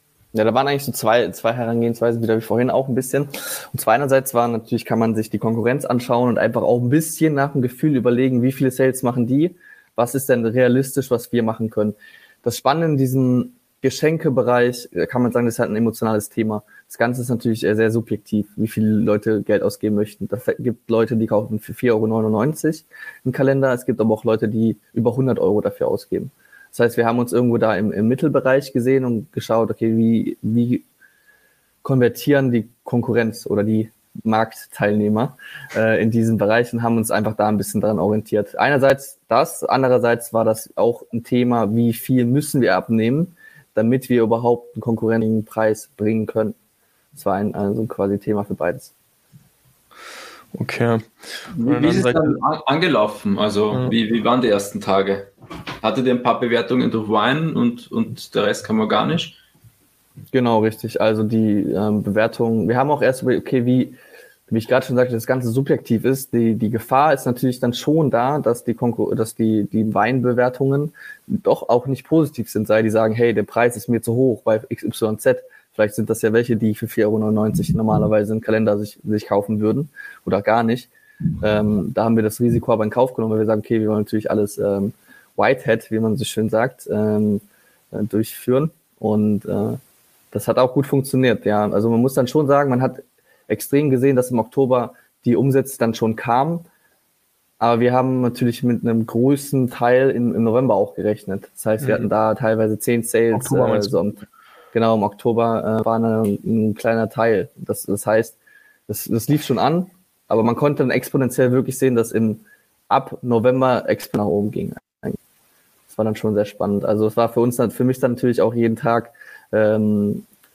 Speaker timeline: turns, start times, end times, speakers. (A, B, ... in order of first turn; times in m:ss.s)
0:00.3-0:30.8 A
0:31.8-0:46.6 A
0:47.2-0:48.9 A
0:50.5-0:52.4 B
0:51.5-0:59.4 C
0:53.7-0:54.0 B
1:00.3-1:04.0 A
1:04.5-1:20.9 A
1:21.4-1:29.8 A
1:30.3-1:36.7 A
1:37.6-1:44.2 A
1:41.8-1:42.1 B
1:43.3-1:44.0 B
1:44.7-1:48.4 A
1:48.9-1:55.2 A
1:55.9-2:00.2 A